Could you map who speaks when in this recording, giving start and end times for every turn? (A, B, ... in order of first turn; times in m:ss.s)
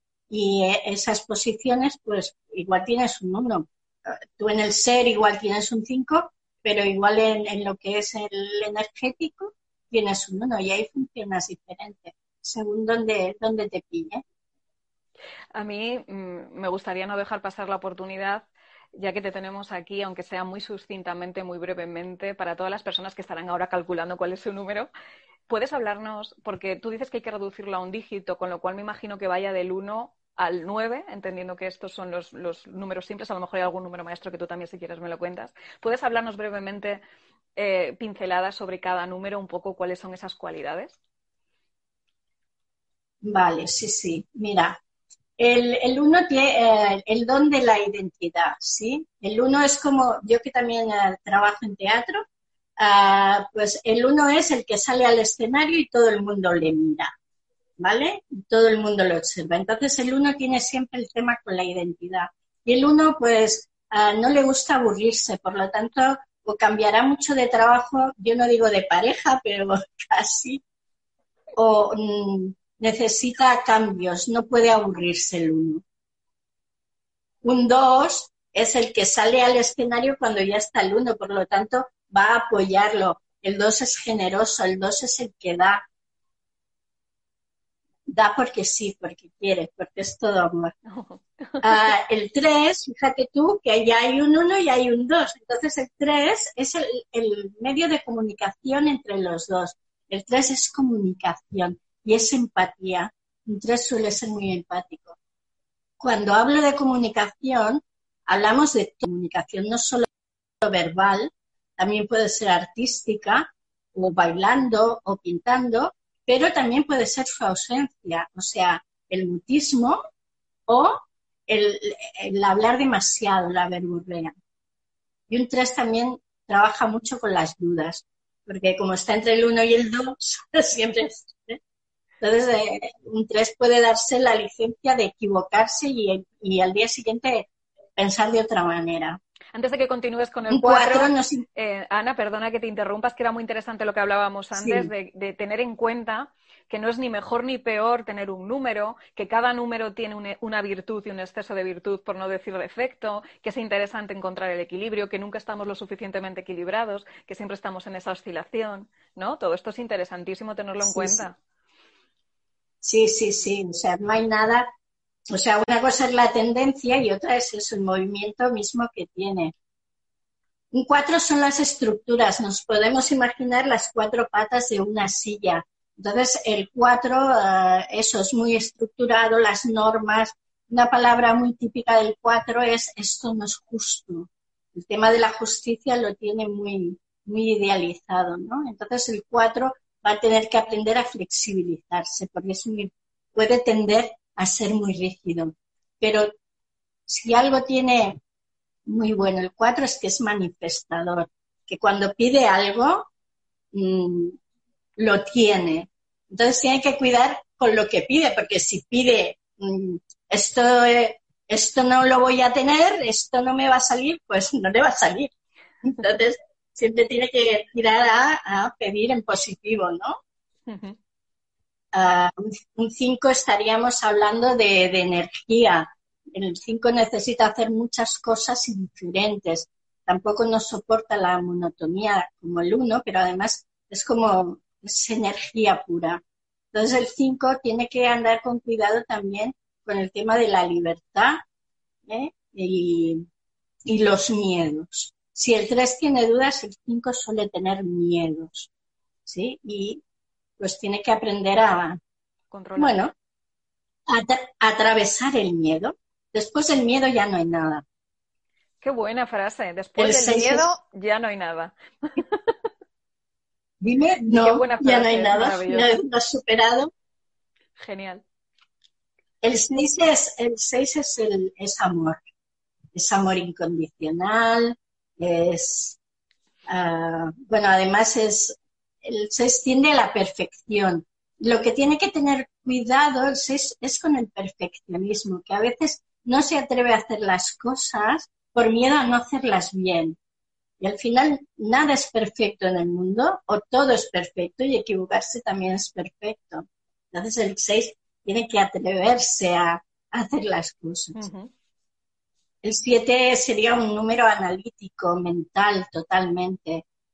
0:00.3-0:14.2 A
0:15.5-0:24.9 B
0:25.5-0:37.0 B
0:37.6-0:41.0 B
0:43.2-0:44.8 A
0:45.4-0:52.3 A
0:52.8-0:57.1 A
0:57.8-1:10.6 A
1:11.6-1:15.8 A
1:17.4-1:25.8 A
1:28.1-1:30.7 A
1:30.9-1:31.7 B
1:31.6-1:45.2 A
1:46.0-1:50.1 A
1:50.6-2:00.0 A
2:00.7-2:04.3 A
2:05.3-2:11.6 A
2:12.2-2:19.2 A
2:19.5-2:41.4 B
2:20.5-2:21.4 A
2:24.5-2:24.9 A
2:40.8-2:41.2 A
2:42.8-2:44.6 A
2:45.3-2:49.5 A
2:50.7-3:16.3 A
3:17.1-3:18.2 A
3:18.8-3:23.1 A
3:23.7-3:24.4 A
3:25.0-3:35.3 A
3:35.8-3:40.2 A
3:40.7-3:41.0 B
3:41.9-3:56.2 A
3:56.7-4:01.4 A
4:02.0-4:03.2 A
4:03.8-4:08.7 A
4:09.2-4:10.0 A
4:10.6-4:12.0 A
4:12.5-4:12.9 B
4:12.8-4:13.1 A
4:14.1-4:17.8 A
4:18.8-4:22.5 B
4:20.0-4:20.6 A
4:23.8-4:26.9 A
4:24.3-4:25.9 B
4:27.8-4:28.2 B
4:29.4-4:32.2 A
4:32.9-4:36.0 A
4:36.7-4:50.2 A
4:50.8-5:01.2 A
5:01.2-5:01.5 B
5:02.6-5:06.8 A